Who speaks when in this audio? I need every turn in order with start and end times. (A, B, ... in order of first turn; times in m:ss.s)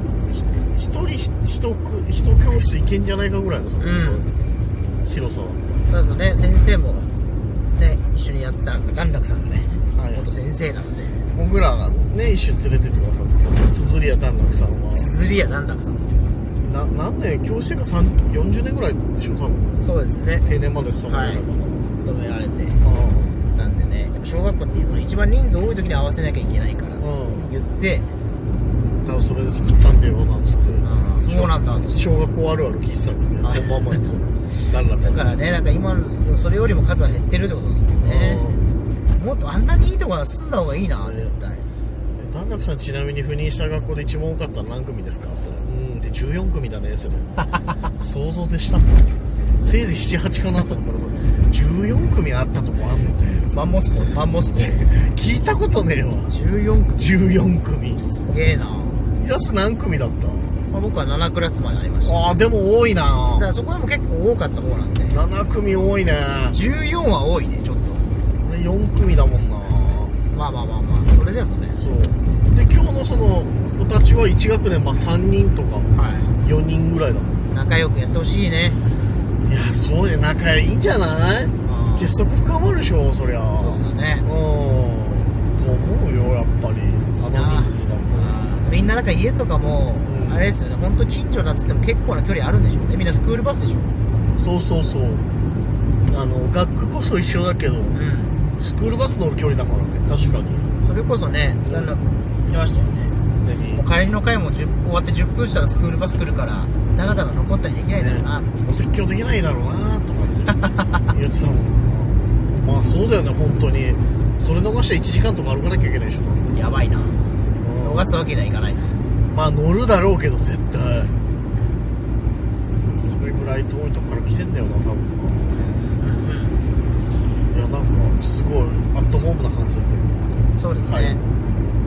0:00.2-0:04.3 A
0:03.8-0:04.3 B
0:05.0-0:05.6 A
0:05.9-0:07.1 B
0:07.7-0:11.2 B
0:10.0-0:10.3 A
0:11.3-0:15.1 A
0:14.9-0:16.1 B
0:16.6-0:19.8 A
0:19.8-0:20.5 B
0:20.4-0:21.9 A
0:21.1-0:21.5 B
0:22.0-0:22.8 B
0:22.8-0:23.4 A
0:23.5-0:28.1 B
0:27.0-0:27.5 A
0:29.0-0:35.2 A
0:30.8-0:32.1 B
0:33.4-0:34.0 B
0:35.0-0:38.5 B
0:38.0-0:38.6 A
0:39.1-0:41.7 B
0:41.0-0:41.3 A
0:42.2-0:47.4 A
0:48.0-0:49.1 A
0:49.6-0:53.6 A
0:53.5-0:54.9 B
0:54.6-0:56.4 A
0:56.3-0:57.0 B
0:57.0-0:58.0 A
0:58.0-0:59.1 B
0:59.2-1:00.6 A
1:00.7-1:02.3 B
1:02.0-1:03.5 A
1:03.3-1:05.2 B
1:05.1-1:06.6 A
1:06.5-1:08.1 B
1:08.4-1:10.2 A
1:10.3-1:11.9 B
1:11.8-1:17.6 A
1:15.9-1:16.3 B
1:17.5-1:18.8 B
1:19.4-1:28.4 A
1:21.6-1:22.2 B
1:23.6-1:24.3 B
1:27.2-1:33.9 B
1:30.0-1:30.4 A
1:34.4-1:35.3 A
1:36.1-1:38.0 A
1:37.9-1:38.4 B
1:38.6-1:40.7 A
1:40.8-1:43.2 B
1:41.6-1:42.0 A
1:43.4-1:43.9 A
1:43.7-1:48.6 B
1:48.0-1:56.7 A
1:50.6-1:50.9 B
1:56.5-1:57.2 B
1:57.6-1:58.1 A
1:57.8-1:59.0 B
1:59.3-2:01.2 A
2:02.9-2:05.6 A
2:05.5-2:06.7 B
2:07.5-2:11.2 A
2:10.6-2:11.2 B